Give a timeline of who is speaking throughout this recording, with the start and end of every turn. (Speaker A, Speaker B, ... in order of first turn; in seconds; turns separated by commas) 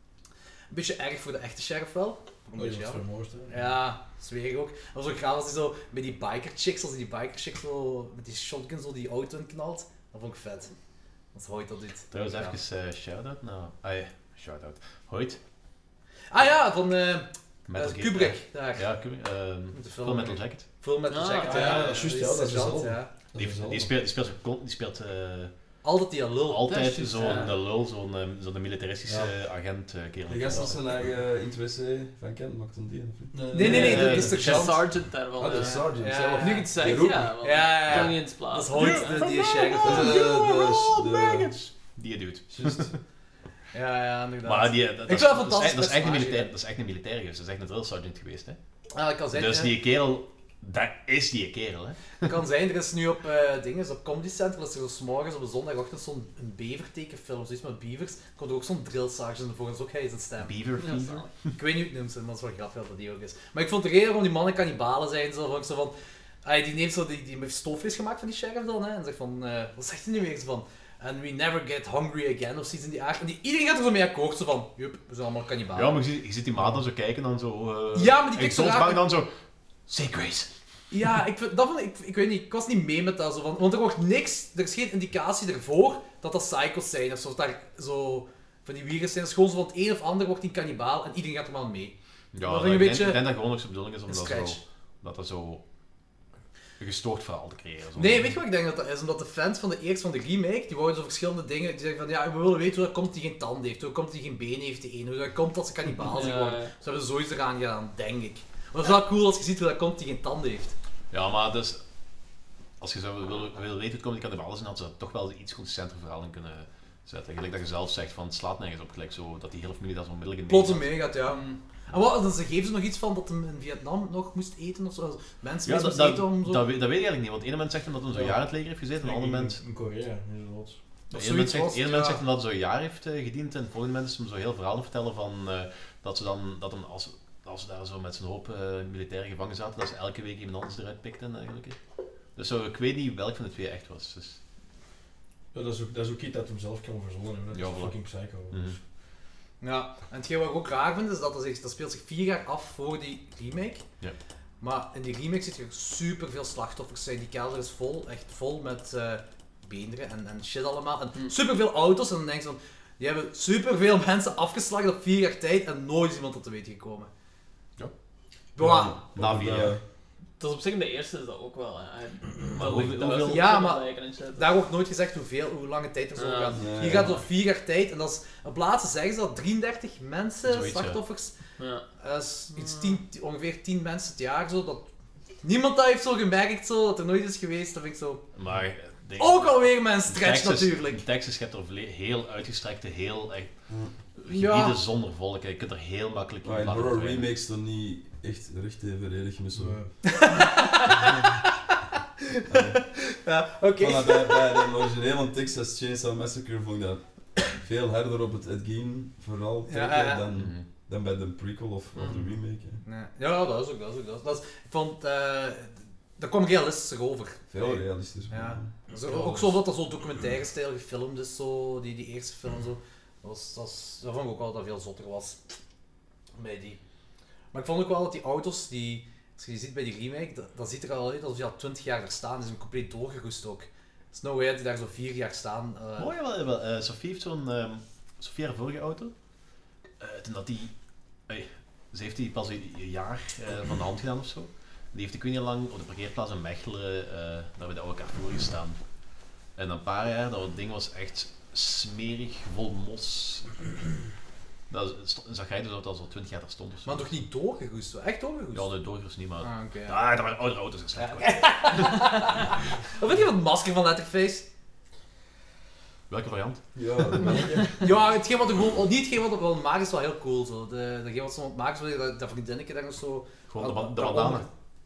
Speaker A: 0.7-10.7, Speaker B: 2.5-3.8, Speaker A: 11.3-12.6, Speaker C: 12.1-15.4, Speaker A: 16.3-19.0, Speaker C: 17.7-20.7, Speaker A: 19.7-23.1, Speaker D: 21.1-22.0, Speaker B: 21.4-23.9, Speaker C: 23.3-25.5, Speaker A: 25.8-27.5, Speaker C: 26.5-30.9, Speaker D: 26.7-27.5, Speaker E: 30.3-33.5, Speaker B: 33.3-34.6, Speaker A: 33.5-34.9, Speaker D: 33.5-39.2, Speaker C: 33.7-34.7, Speaker E: 35.3-37.4, Speaker A: 35.5-40.2, Speaker C: 37.9-38.2, Speaker C: 38.7-43.0, Speaker E: 39.8-41.5, Speaker E: 42.5-42.9, Speaker A: 43.7-46.5, Speaker C: 44.4-48.6, Speaker A: 48.9-49.8, Speaker C: 49.3-52.3, Speaker A: 52.2-60.5, Speaker C: 60.4-61.3, Speaker D: 60.8-61.3, Speaker A: 61.5-76.0, Speaker C: 75.7-79.3, Speaker B: 76.6-76.8, Speaker A: 77.9-79.0, Speaker C: 79.9-80.5, Speaker A: 80.9-93.3, Speaker C: 92.3-95.6, Speaker A: 94.1-94.6, Speaker C: 96.8-98.3, Speaker A: 98.0-110.7, Speaker D: 106.0-106.7, Speaker C: 111.1-111.8, Speaker C: 112.8-121.2, Speaker A: 120.5-126.6, Speaker C: 125.7-129.6, Speaker B: 128.1-128.4, Speaker B: 129.0-130.8, Speaker A: 131.1-132.2, Speaker C: 131.1-141.8, Speaker C: 142.3-144.4, Speaker B: 145.5-148.8, Speaker C: 147.5-148.8, Speaker A: 149.6-153.8, Speaker A: 154.6-167.1, Speaker A: 168.6-169.0, Speaker E: 168.6-169.8, Speaker C: 169.1-169.8, Speaker D: 170.4-174.5, Speaker C: 172.5-173.5, Speaker A: 173.2-181.3, Speaker D: 176.2-176.8, Speaker E: 176.5-177.2, Speaker C: 180.4-181.0, Speaker D: 181.6-181.8, Speaker A: 182.0-184.9, Speaker D: 182.5-183.0, Speaker A: 185.4-188.2, Speaker C: 188.3-193.5, Speaker A: 189.2-191.0, Speaker C: 194.1-197.3, Speaker A: 194.3-194.8, Speaker E: 196.4-199.8, Speaker B: 199.5-199.9, Speaker A: 200.0-201.2, Speaker E: 202.5-202.8, Speaker A: 202.5-204.7, Speaker E: 203.8-212.8, Speaker A: 209.7-210.2, Speaker C: 210.3-210.7, Speaker D: 211.9-212.3, Speaker A: 212.8-225.4, Speaker E: 217.5-218.7, Speaker B: 218.9-219.6, Speaker A: 226.3-226.8, Speaker A: 227.5-236.1, Speaker C: 236.0-239.1, Speaker C: 240.0-240.7, Speaker C: 241.3-248.8, Speaker C: 249.5-253.5, Speaker C: 254.7-257.1, Speaker A: 256.8-258.7, Speaker C: 258.5-261.9, Speaker A: 259.4-260.0, Speaker A: 260.9-264.4, Speaker C: 266.1-267.2, Speaker E: 266.7-267.7, Speaker A: 267.8-274.5, Speaker C: 273.5-274.5